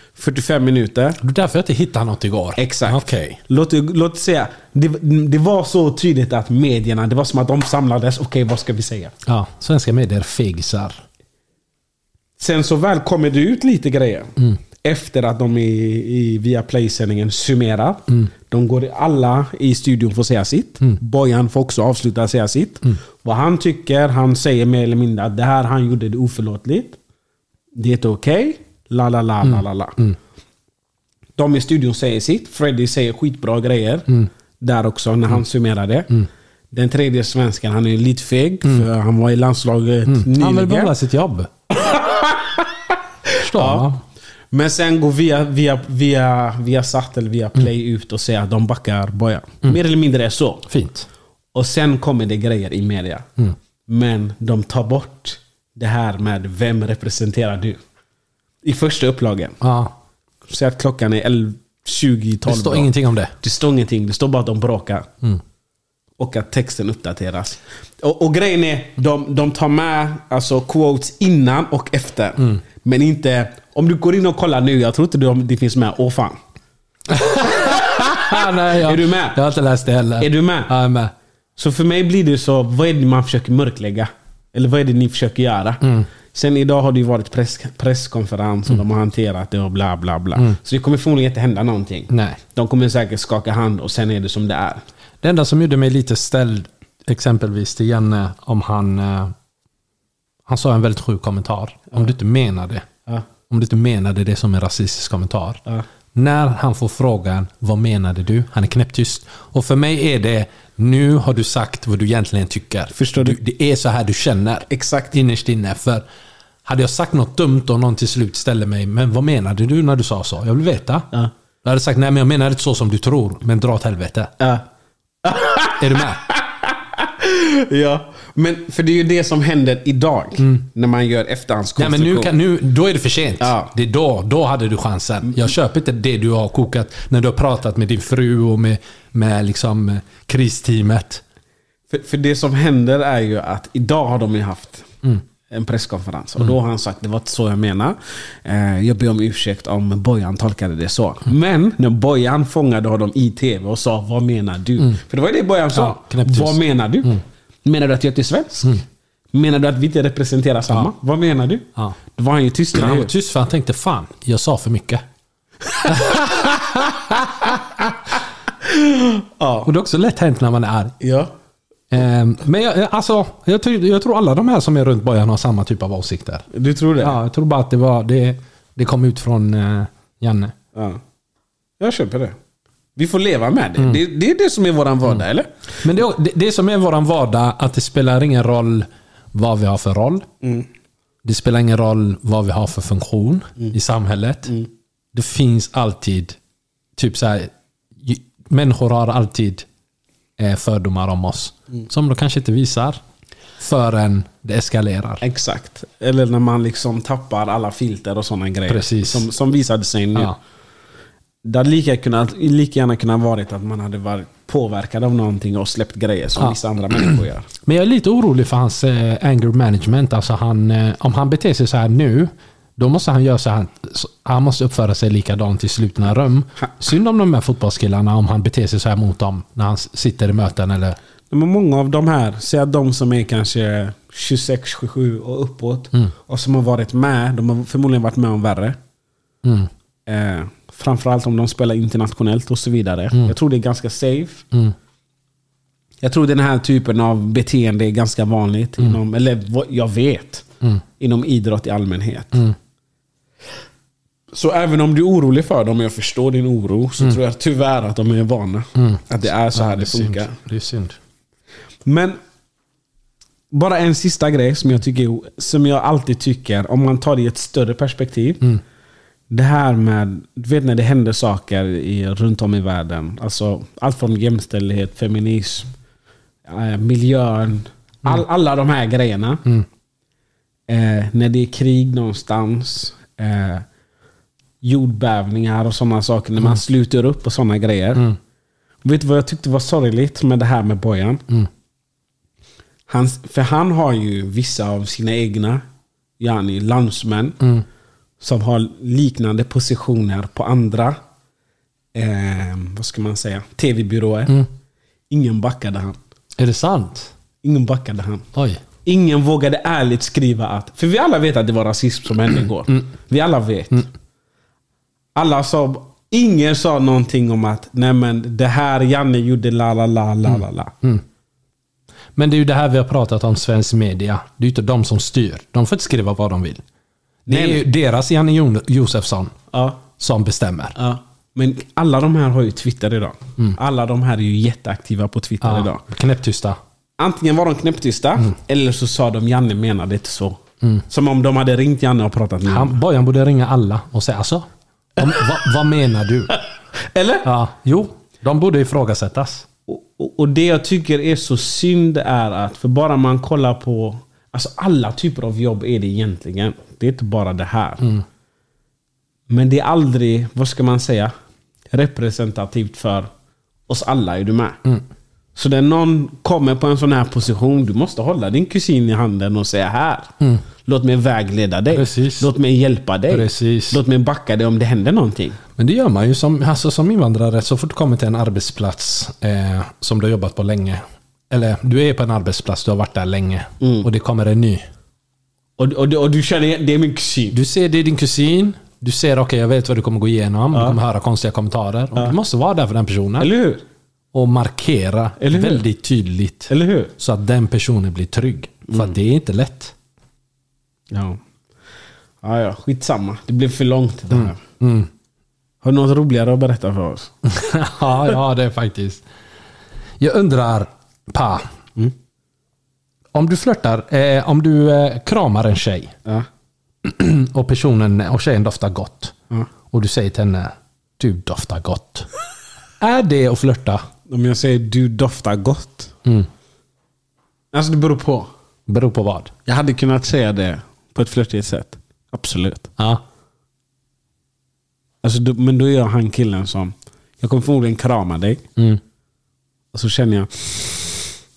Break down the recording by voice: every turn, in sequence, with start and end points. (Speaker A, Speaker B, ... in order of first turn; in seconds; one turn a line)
Speaker A: 0.1-1.2
Speaker B: 1.2-3.4
Speaker A: 2.6-9.1
Speaker B: 9.2-11.0
Speaker A: 12.4-27.0
Speaker A: 27.7-30.0
Speaker B: 29.4-30.1
Speaker A: 31.4-36.2
Speaker A: 36.7-40.9
Speaker B: 40.0-41.5
Speaker A: 41.8-42.6
Speaker A: 43.3-43.9
Speaker B: 43.4-44.0
Speaker A: 44.5-50.7
Speaker B: 50.7-51.1
Speaker A: 51.5-53.3
Speaker A: 53.9-57.8
Speaker A: 58.6-59.6
Speaker B: 59.6-59.9
Speaker A: 60.5-65.1
Speaker B: 62.4-63.3
Speaker A: 66.2-76.4
Speaker B: 77.1-81.1
Speaker A: 78.8-79.4
Speaker A: 80.2-80.7
Speaker A: 81.6-94.8
Speaker B: 85.8-86.1
Speaker B: 92.1-92.4
Speaker B: 95.2-99.3
Speaker B: 100.5-102.9
Speaker B: 103.5-105.6
Speaker B: 106.1-116.0
Speaker A: 112.9-113.4
Speaker A: 114.7-115.2
Speaker B: 116.6-121.1
Speaker B: 121.6-124.3
Speaker A: 125.2-132.3
Speaker B: 125.8-126.2
Speaker B: 130.4-130.6
Speaker B: 131.8-141.2
Speaker A: 133.4-133.7
Speaker A: 141.9-144.9
Speaker A: 145.5-158.8
Speaker B: 155.7-157.2
Speaker A: 159.3-163.1
Speaker B: 162.7-165.0
Speaker B: 165.8-167.8
Speaker A: 168.6-169.7
Speaker B: 169.6-170.9
Speaker A: 171.0-171.3
Speaker B: 171.9-176.4
Speaker A: 176.5-177.2
Speaker B: 177.0-180.5
Speaker A: 180.7-181.0
Speaker A: 181.8-182.4
Speaker A: 182.9-185.5
Speaker B: 183.8-184.0
Speaker B: 185.8-190.3
Speaker A: 190.4-190.7
Speaker B: 191.2-194.5
Speaker B: 195.1-196.4
Speaker B: 197.0-199.7
Speaker B: 200.4-203.0
Speaker B: 203.6-205.2
Speaker A: 205.2-210.3
Speaker B: 208.7-209.3
Speaker A: 211.4-217.5
Speaker B: 216.4-231.0
Speaker A: 231.3-238.8
Speaker B: 239.4-239.7
Speaker A: 240.1-244.4
Speaker A: 246.0-250.4
Speaker A: 251.0-252.4
Speaker A: 254.3-260.4
Speaker B: 258.8-261.0
Speaker A: 261.9-262.2
Speaker A: 263.5-268.5
Speaker A: 269.3-275.7
Speaker A: 276.4-279.4
Speaker A: 280.7-283.6
Speaker A: 284.6-288.1
Speaker A: 288.8-291.2
Speaker A: 292.9-295.6
Speaker A: 296.2-297.4
Speaker A: 298.2-301.0
Speaker A: 301.9-304.4
Speaker A: 305.1-306.0
Speaker B: 306.4-307.1
Speaker A: 307.4-308.3
Speaker B: 308.3-308.6
Speaker A: 308.8-313.9
Speaker A: 315.1-320.7
Speaker B: 320.3-321.0
Speaker B: 322.1-326.6
Speaker A: 327.3-327.6
Speaker B: 327.3-329.4
Speaker A: 329.5-329.8
Speaker B: 330.0-330.8
Speaker A: 330.8-335.8
Speaker B: 335.4-336.6
Speaker A: 337.0-342.8
Speaker B: 342.4-346.3
Speaker A: 346.8-347.3
Speaker B: 347.2-349.4
Speaker A: 349.7-357.9
Speaker A: 359.3-361.1
Speaker A: 361.7-363.1
Speaker A: 363.7-364.6
Speaker A: 365.3-370.1
Speaker A: 370.6-375.4
Speaker B: 371.7-372.3
Speaker B: 373.1-373.8
Speaker B: 375.6-384.6
Speaker A: 383.6-383.9
Speaker A: 385.6-387.4
Speaker B: 387.3-393.3
Speaker A: 390.5-390.8
Speaker A: 393.2-393.6
Speaker B: 394.1-399.7
Speaker A: 395.2-395.6
Speaker A: 396.5-396.9
Speaker A: 398.7-398.9
Speaker A: 400.9-401.2
Speaker A: 402.2-404.4
Speaker B: 404.1-404.9
Speaker A: 405.6-407.1
Speaker B: 407.2-409.0
Speaker B: 410.0-411.5
Speaker B: 413.1-415.9
Speaker B: 416.8-419.1
Speaker B: 419.7-422.1
Speaker B: 422.8-423.8
Speaker A: 424.1-425.9
Speaker A: 427.5-428.3
Speaker B: 428.7-429.3
Speaker A: 429.4-432.7
Speaker A: 435.0-438.4
Speaker A: 439.7-441.1